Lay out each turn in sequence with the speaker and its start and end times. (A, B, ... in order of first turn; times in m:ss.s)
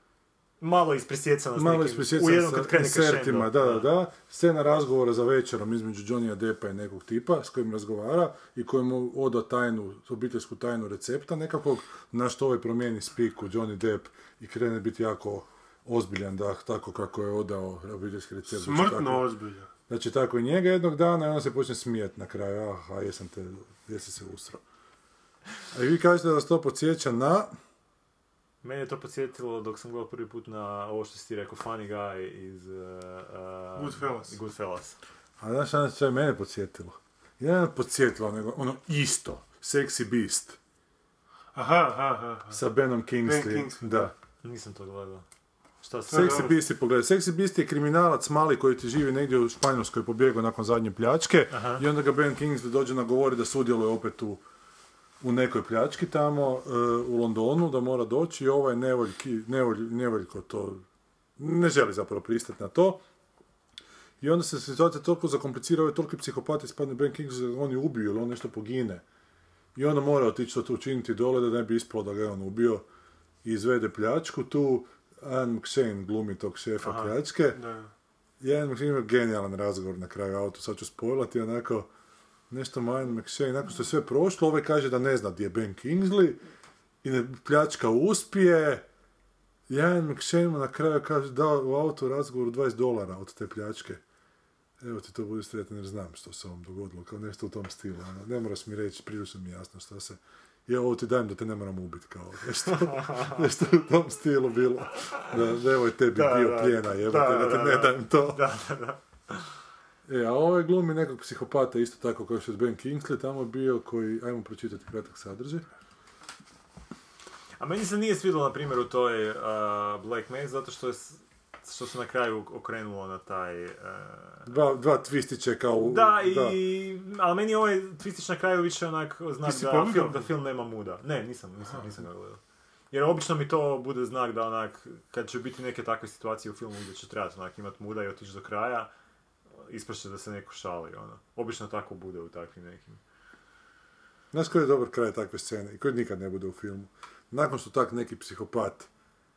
0:00.6-0:03.9 A
0:01.6-0:19.3 B
0:18.5-0:19.7 C
0:19.9-0:24.6 B
0:25.7-0:27.5 B
0:28.6-0:35.0 A
0:33.8-0:34.4 C
0:35.4-0:40.6 B
0:41.6-0:42.6 C
0:42.5-0:44.1 B
0:43.2-0:44.1 C
0:44.4-0:45.2 A
0:45.8-0:46.6 A
0:46.1-0:46.5 C
0:46.1-0:54.4 B
0:51.5-0:51.8 A
0:55.2-1:00.8 B
1:01.4-1:03.0 B
1:04.2-1:09.0 B
1:09.7-1:12.8 B
1:13.4-1:17.6 B
1:16.8-1:17.1 A
1:17.5-1:17.9 C
1:18.4-1:21.9 B
1:22.5-1:26.4 B
1:27.0-1:28.9 B
1:29.7-1:34.0 B
1:34.8-1:48.4 B
1:42.7-1:43.4 A
1:46.1-1:49.4 A
1:50.1-1:55.6 B
1:57.6-2:04.5 A
2:04.4-2:06.6 B
2:05.7-2:12.4 A
2:09.4-2:10.3 C
2:12.9-2:18.9 A
2:19.6-2:23.0 A
2:24.3-2:28.9 B